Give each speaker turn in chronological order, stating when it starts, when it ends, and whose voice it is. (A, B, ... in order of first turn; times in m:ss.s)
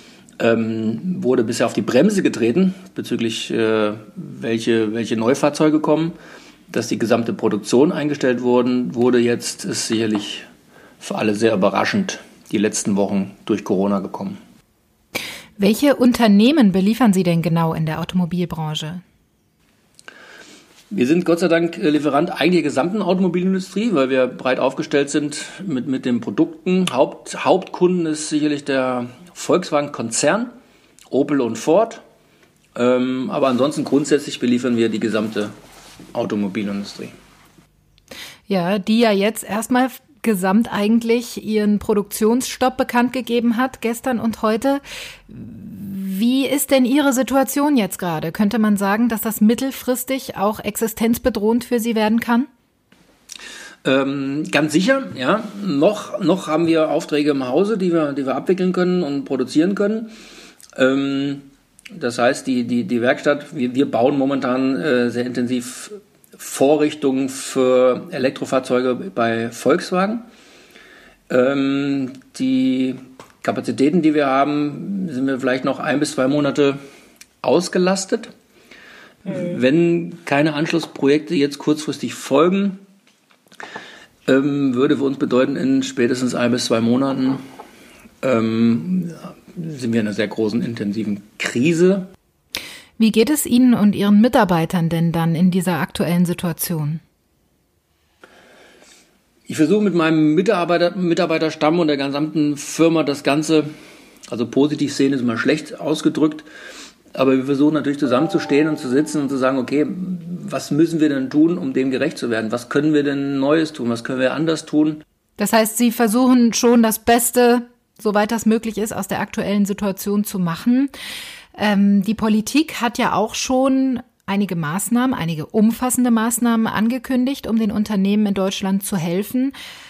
0:00.4-0:06.1 A
0:06.7-0:10.5 A
0:11.0-0:14.4 A
0:15.6-0:19.0 B
0:20.9-0:30.5 A
0:31.1-0:32.0 A
0:32.7-0:35.5 A
0:36.1-0:37.1 A
0:38.5-0:52.5 B
0:53.8-1:00.1 A
1:00.7-1:10.2 A
1:11.3-1:16.8 A
1:17.4-1:18.3 A
1:19.2-1:22.8 A
1:24.3-1:27.4 A
1:28.2-1:32.1 A
1:33.0-1:37.0 B
1:39.5-1:43.7 A
1:44.3-1:46.4 A
1:47.1-1:55.0 A
1:55.4-2:00.9 B
2:01.5-2:09.5 B